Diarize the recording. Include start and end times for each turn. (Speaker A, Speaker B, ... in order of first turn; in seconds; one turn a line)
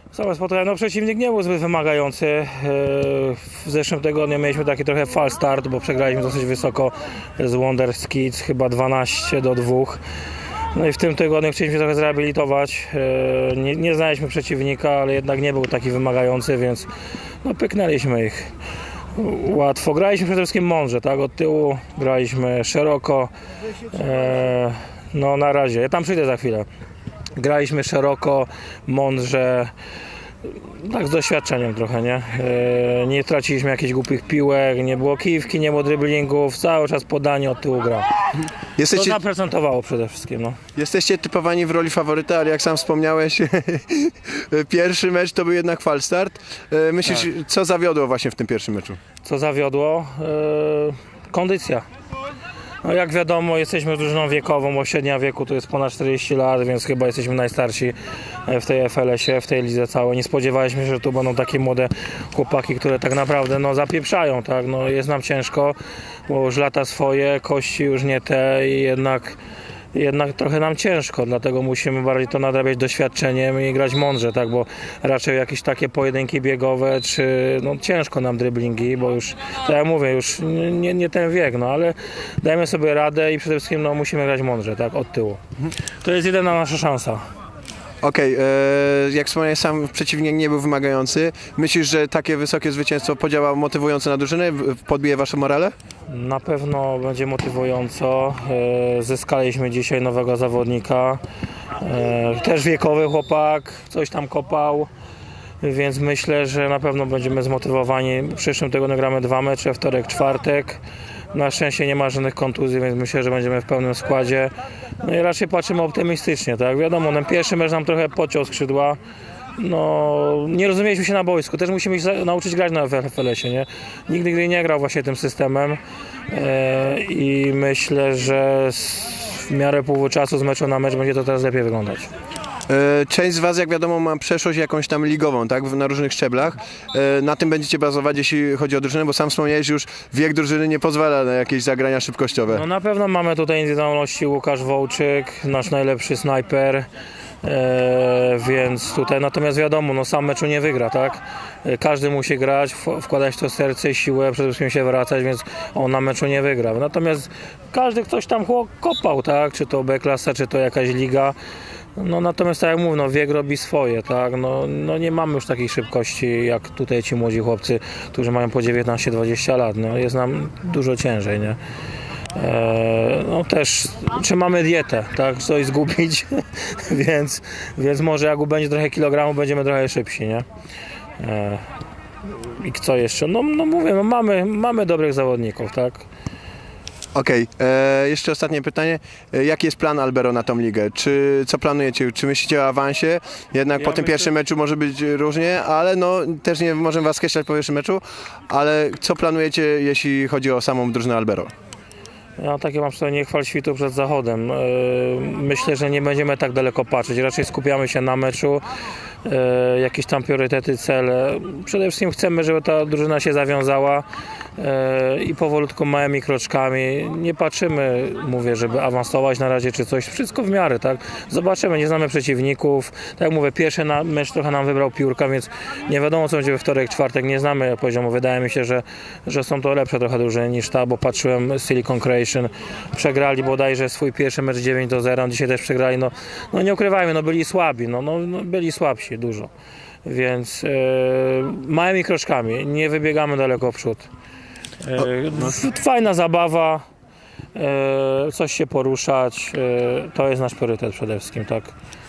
Speaker A: 0.1-10.0
Speaker A: 10.7-16.9
Speaker A: 17.4-18.5
Speaker A: 19.1-23.3
Speaker A: 23.9-26.7
Speaker A: 27.4-29.7
Speaker A: 30.6-38.1
Speaker B: 38.8-39.2
Speaker A: 38.9-40.6
Speaker B: 40.8-49.0
Speaker A: 49.2-51.8
Speaker A: 52.8-65.8
Speaker A: 66.3-69.4
Speaker A: 69.9-85.4
Speaker A: 86.0-87.2
Speaker B: 88.0-95.7
Speaker A: 96.1-101.2
Speaker A: 101.8-104.9
Speaker A: 105.6-110.8
Speaker A: 111.3-119.0
Speaker A: 119.6-125.8
Speaker A: 126.3-132.1
Speaker B: 132.7-142.6
Speaker A: 142.5-146.9
Speaker A: 147.4-161.3
Speaker A: 161.9-171.6
Speaker A: 172.3-180.4
Speaker A: 181.2-181.6
Speaker A: 182.3-186.1
Speaker B: 187.1-201.5
Speaker A: 193.8-194.3
Speaker A: 202.4-208.6
Speaker A: 209.2-214.1
Speaker A: 214.6-239.5
Speaker A: 240.0-244.1
Speaker A: 244.8-246.8
Speaker A: 247.5-251.7